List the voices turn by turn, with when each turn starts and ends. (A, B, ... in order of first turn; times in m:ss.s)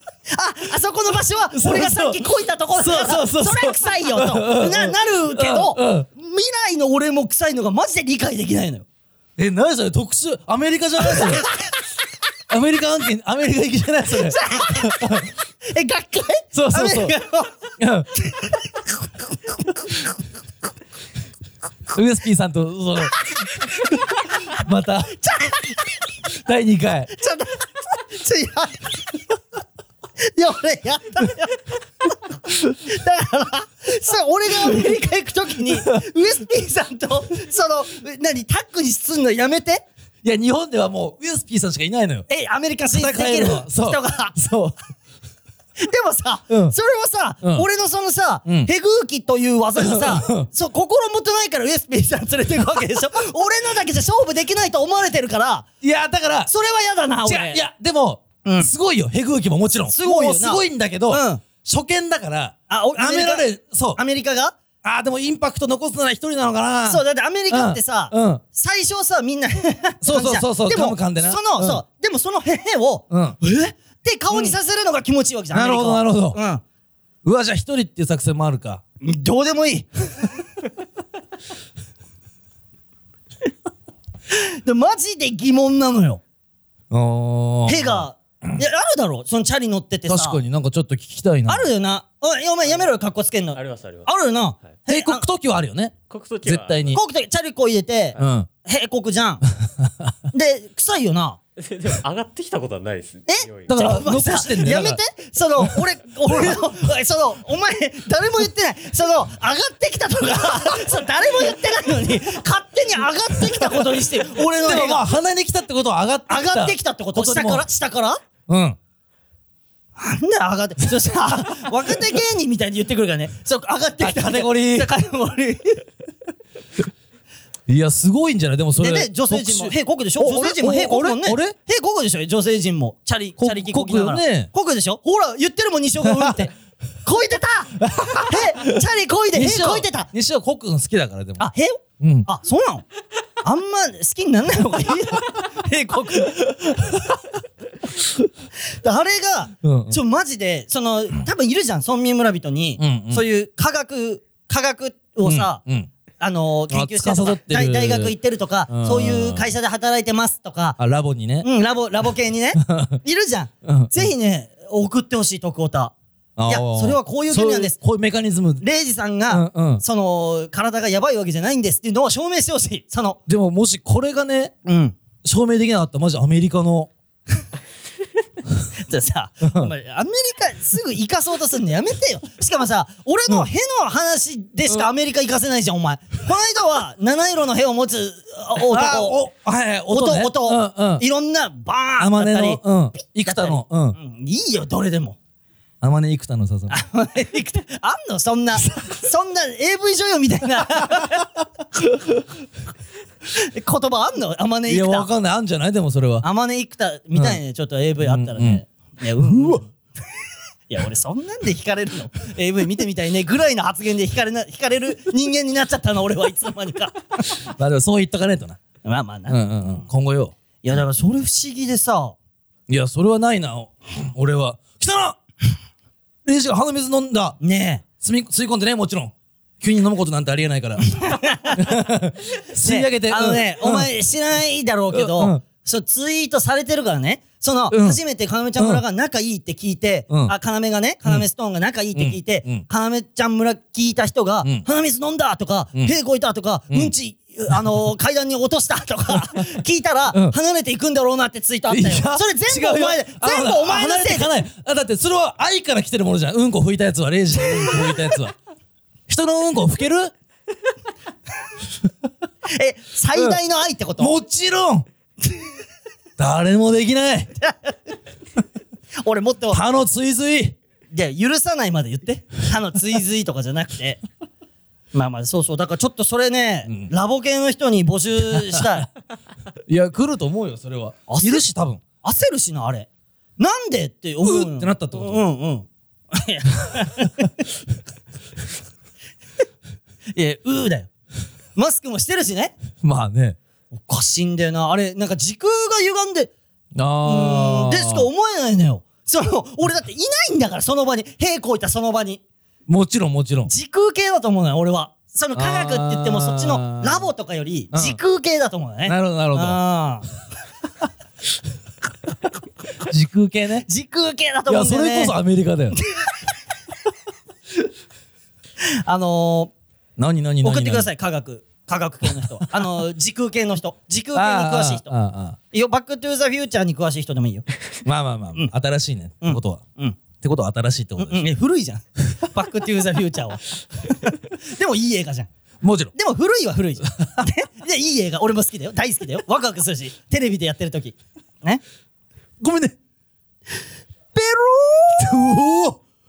0:00.3-0:08.9 A
0:01.5-0:06.1 B
0:09.4-0:11.5 B
0:11.0-0:11.5 A
0:12.5-0:15.3 B
0:14.1-0:17.6 A
0:16.5-0:17.2 B
0:17.8-0:18.1 B
0:18.2-0:18.6 A
0:21.9-0:23.3 B
0:24.5-0:25.2 B
0:25.2-0:25.9 A
0:26.3-0:27.1 B
0:27.1-0:29.2 A
0:30.2-0:31.7 A
0:32.7-0:39.8 A
0:40.2-0:42.3 B
0:42.3-0:44.4 A
0:42.9-0:44.8 B
0:45.8-0:55.7 A
0:46.5-0:46.8 B
0:49.8-0:50.5 B
0:55.8-0:56.5 B
0:56.5-0:57.6 A
0:57.2-1:04.0 B
0:58.4-0:58.7 A
0:59.9-1:01.4 A
1:02.7-1:04.6 A
1:04.8-1:08.4 B
1:06.9-1:16.6 A
1:10.0-1:11.8 B
1:13.1-1:13.4 B
1:14.3-1:14.6 B
1:15.5-1:16.4 B
1:17.2-1:18.8 B
1:19.0-1:20.3 A
1:24.3-1:26.2 A
1:26.9-1:28.5 B
1:27.6-1:30.4 A
1:30.1-1:31.7 B
1:31.5-1:35.2 A
1:33.5-1:34.1 C
1:34.9-1:37.0 B
1:36.1-1:37.0 C
1:36.9-1:39.4 A
1:38.2-1:38.5 B
1:39.8-1:40.1 B
1:40.3-1:41.4 A
1:41.6-1:43.8 C
1:43.3-1:55.1 A
1:43.7-1:45.0 B
1:46.3-1:46.6 B
1:53.4-1:57.6 B
1:56.3-1:58.2 A
1:58.5-1:58.8 B
2:00.0-2:05.8 A
2:04.0-2:04.9 B
2:07.7-2:11.6 B
2:08.8-2:16.5 A
2:13.4-2:14.5 B
2:16.0-2:16.4 B
2:17.0-2:20.1 A
2:17.8-2:18.7 B
2:19.3-2:21.5 B
2:21.4-2:22.8 A
2:22.0-2:22.3 B
2:23.4-2:26.6 A
2:26.6-2:27.2 B
2:28.7-2:35.6 A
2:29.6-2:30.0 B
2:32.8-2:33.2 B
2:35.2-2:35.9 B
2:36.2-2:40.8 A
2:36.7-2:38.1 B
2:38.7-2:39.5 B
2:40.8-2:41.5 B
2:41.4-2:45.9 A
2:42.6-2:43.0 B
2:43.6-2:44.1 B
2:46.4-2:48.6 B
2:46.5-2:47.8 A
2:48.6-2:53.2 A
2:49.3-2:49.8 B
2:53.3-2:54.5 B
2:54.6-2:55.0 A
2:55.2-2:56.9 B
2:58.8-3:09.2 A
2:59.4-2:59.7 B
3:08.6-3:11.0 B
3:09.9-3:15.2 A
3:12.0-3:14.0 B
3:15.8-3:16.7 B
3:16.7-3:21.3 A
3:20.8-3:21.1 B
3:23.3-3:25.1 A
3:24.7-3:26.2 B
3:26.2-3:29.7 A
3:27.1-3:27.4 B
3:28.0-3:28.6 B
3:29.2-3:29.6 B
3:30.7-3:37.4 A
3:37.5-3:38.6 B
3:38.8-3:39.8 A
3:39.3-3:40.3 B
3:40.6-3:42.2 A
3:42.7-3:45.2 B
3:46.2-3:47.4 B
3:47.4-3:47.8 A
3:48.0-3:53.9 B
3:50.9-3:51.8 A
3:52.6-4:14.3 A
3:54.9-3:55.4 B
3:57.7-3:58.0 B
3:58.6-3:58.8 B
4:02.0-4:02.6 B
4:09.1-4:09.4 B
4:11.7-4:18.3 B
4:17.4-4:18.0 A
4:19.1-4:20.1 B
4:22.5-4:24.2 A
4:24.0-4:24.9 B
4:26.2-4:27.3 B
4:27.4-4:27.8 A
4:29.0-4:29.6 A
4:29.5-4:30.6 B
4:30.9-4:34.0 A
4:34.9-4:38.9 A
4:38.3-4:38.7 B
4:39.7-4:41.8 B
4:41.1-4:41.5 A
4:42.0-4:47.3 A
4:44.2-4:45.2 B
4:50.1-4:50.9 A
4:51.6-4:52.5 A
4:52.8-4:53.4 B
4:53.7-4:56.3 A
4:56.8-4:58.1 B
4:57.0-5:02.2 A
5:02.7-5:03.5 B
5:03.4-5:10.1 A
5:05.4-5:07.1 B
5:07.7-5:08.0 B
5:08.9-5:09.6 B
5:12.9-5:13.7 B
5:13.6-5:15.2 A
5:14.5-5:15.8 B
5:18.6-5:19.5 A
5:20.0-5:20.9 B
5:20.4-5:24.9 A
5:22.2-5:22.6 B
5:24.1-5:25.4 B
5:25.5-5:27.4 A
5:27.8-5:29.6 B
5:29.2-5:30.0 A
5:30.2-5:31.3 B
5:31.0-5:35.3 A
5:35.6-5:35.9 B
5:35.9-5:41.6 A
5:42.4-5:42.8 B
5:44.2-5:45.8 B
5:44.4-5:45.5 A